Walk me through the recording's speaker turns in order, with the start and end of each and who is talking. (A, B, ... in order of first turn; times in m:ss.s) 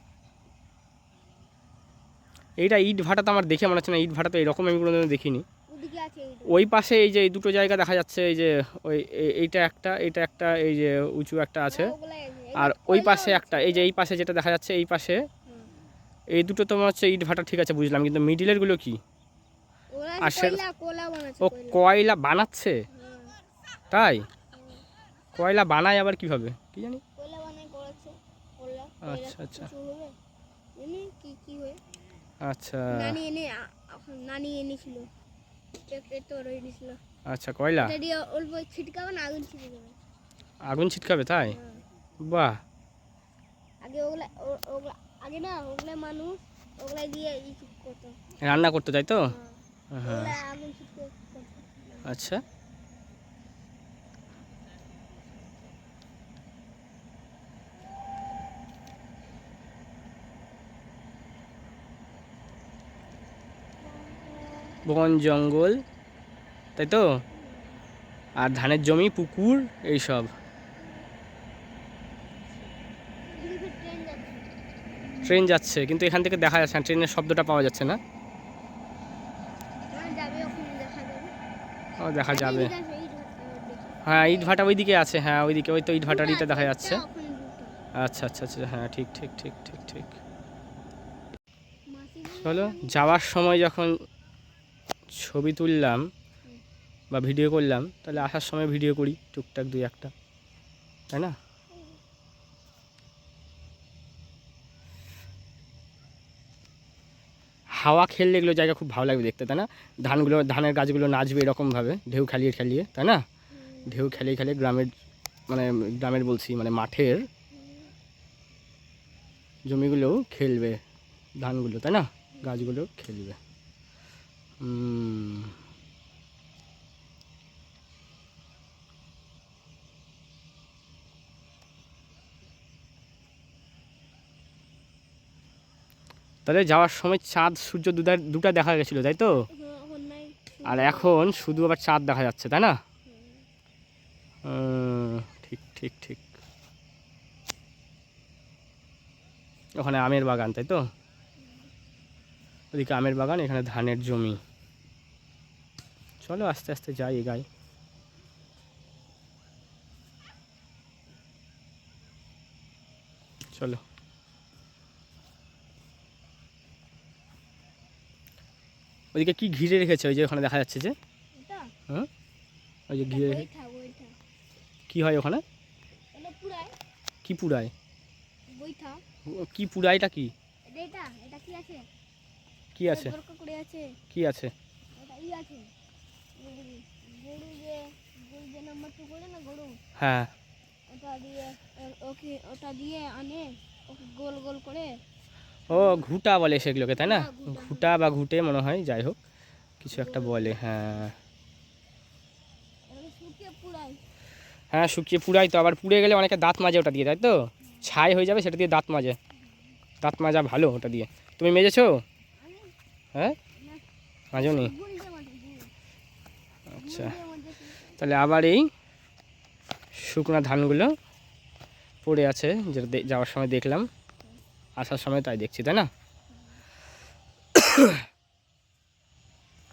0:02.6-0:05.4 A
0:05.7-0:06.7 B
0:06.5-0:11.9 A
0:11.7-0:13.9 B
0:12.6-0:15.3 A
0:15.5-0:15.7 B
0:16.3-0:19.0 A
0:19.9-0:21.8 B
0:20.2-0:20.6 A
0:21.4-0:22.8 A
0:22.9-0:23.4 B
0:23.9-0:24.3 A
0:24.5-0:24.8 B
0:25.3-0:27.0 A
0:27.2-0:30.1 B
0:29.0-0:29.7 A
0:30.8-0:31.8 B
0:32.4-0:33.2 A
0:32.9-0:35.1 B
0:35.9-0:37.0 B
0:37.2-0:37.9 A
0:37.8-0:40.0 B
0:40.6-0:41.6 A
0:41.5-0:41.8 B
0:42.2-0:42.6 A
0:43.8-0:48.2 B
0:48.4-0:49.3 A
0:49.2-0:52.1 B
0:49.9-0:50.4 A
0:52.0-0:52.4 A
1:03.9-1:04.8 B
1:04.8-1:05.8 A
1:06.8-1:07.2 A
1:07.4-1:07.7 B
1:08.4-1:10.3 A
1:13.3-1:14.5 B
1:15.2-1:18.0 A
1:19.9-1:21.3 B
1:22.0-1:22.7 A
1:22.3-1:24.7 B
1:24.0-1:27.0 A
1:26.0-1:27.8 B
1:27.9-1:30.2 A
1:31.9-1:33.2 B
1:32.4-1:34.0 A
1:35.1-1:36.1 A
1:37.1-1:40.1 A
1:41.1-1:41.4 A
1:41.7-1:42.0 B
1:47.8-1:53.2 A
1:53.5-1:54.2 B
1:53.9-1:54.9 A
1:55.5-1:57.3 A
1:57.5-1:57.9 B
1:59.6-2:00.8 A
2:01.4-2:03.4 A
2:02.4-2:02.7 B
2:04.6-2:05.6 A
2:16.4-2:19.4 A
2:19.5-2:21.2 B
2:20.6-2:22.8 A
2:23.0-2:23.4 B
2:24.4-2:26.2 A
2:29.8-2:30.8 A
2:31.4-2:31.7 B
2:32.7-2:34.4 A
2:36.2-2:37.4 A
2:43.5-2:43.8 A
2:49.1-2:50.9 A
2:51.3-2:51.7 B
2:52.9-2:53.4 A
2:53.0-2:54.1 B
2:54.9-2:55.4 A
2:56.1-2:56.8 B
2:57.2-2:57.7 A
2:58.5-2:59.0 B
2:59.2-3:00.3 A
3:00.7-3:01.8 B
3:02.7-3:03.1 A
3:02.9-3:04.0 B
3:04.1-3:04.5 A
3:04.9-3:05.7 B
3:06.4-3:09.8 B
3:10.0-3:10.3 A
3:10.9-3:14.9 B
3:15.7-3:16.1 B
3:15.7-3:19.2 A
3:16.9-3:17.9 B
3:19.8-3:21.2 A
3:19.9-3:20.6 B
3:22.9-3:24.0 B
3:24.7-3:29.2 A
3:30.0-3:32.0 A
3:32.4-3:32.7 B
3:33.5-3:33.8 B
3:34.3-3:34.7 A
3:34.4-3:35.7 B
3:36.7-3:38.0 B
3:36.7-3:37.1 A
3:38.0-3:38.7 A
3:39.9-3:40.9 A
3:42.0-3:43.9 A
3:44.8-3:45.9 A
3:46.3-3:46.6 B
3:47.5-3:48.0 A